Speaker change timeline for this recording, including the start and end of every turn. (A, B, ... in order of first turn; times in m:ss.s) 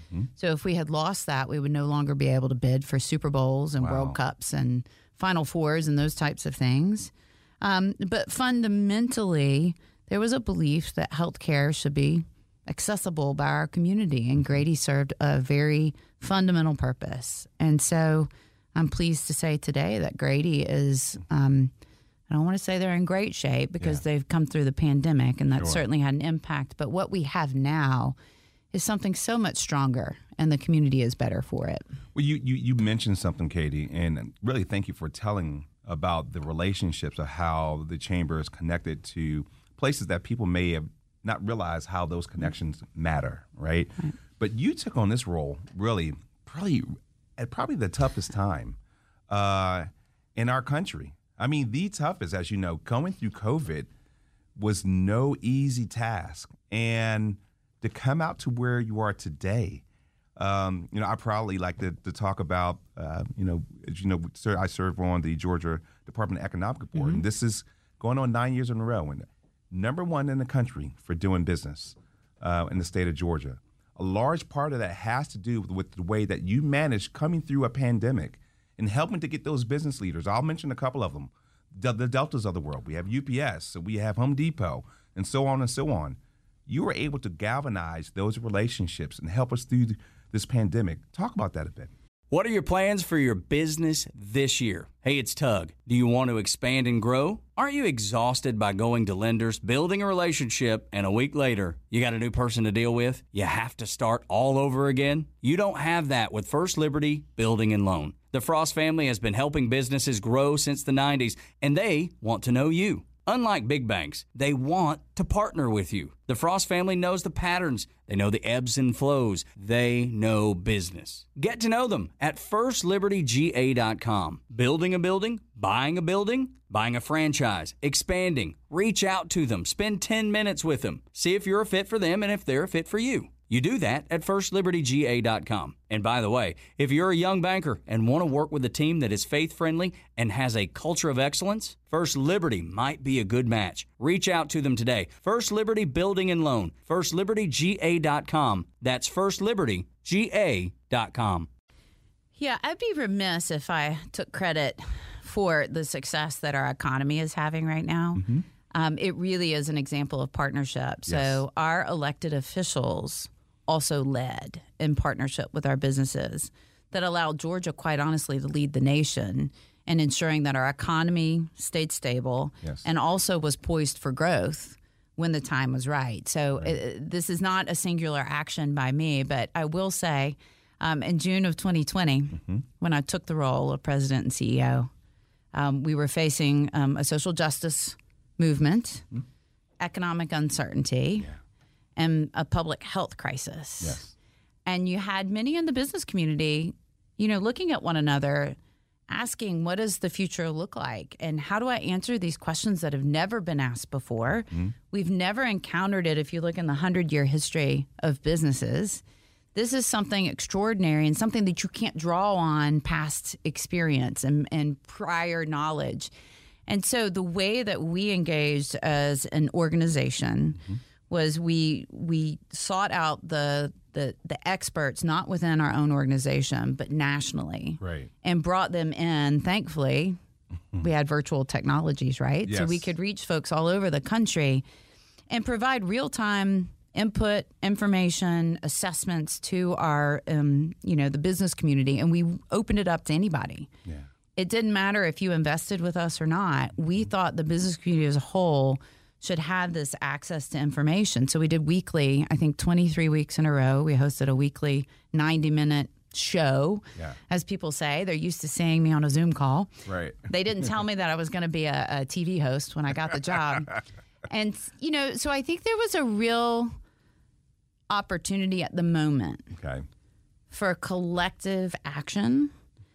0:00.4-0:21.7 A
0:03.8-0:04.2 B
0:22.3-0:28.2 A
0:25.6-0:25.8 B
0:28.7-0:31.8 A
0:32.1-0:48.8 B
0:49.3-0:53.9 B
0:54.6-0:59.8 B
1:00.4-1:31.9 B
1:32.3-2:31.5 C
2:32.4-3:04.9 A
2:38.2-2:38.4 B
2:41.1-2:41.4 B
3:05.5-3:09.1 A
3:09.8-3:11.3 A
3:12.0-3:14.0 A
3:13.8-3:14.1 B
3:14.6-3:18.6 A
3:19.1-3:29.0 A
3:29.6-3:36.1 A
3:36.7-3:50.2 A
3:47.8-3:48.1 B
3:50.8-3:54.6 A
3:52.4-3:52.9 B
3:55.3-4:03.7 A
4:04.4-4:26.8 A
4:19.9-4:20.3 B
4:27.9-4:29.5 A
4:29.5-4:29.8 B
4:30.5-4:32.5 A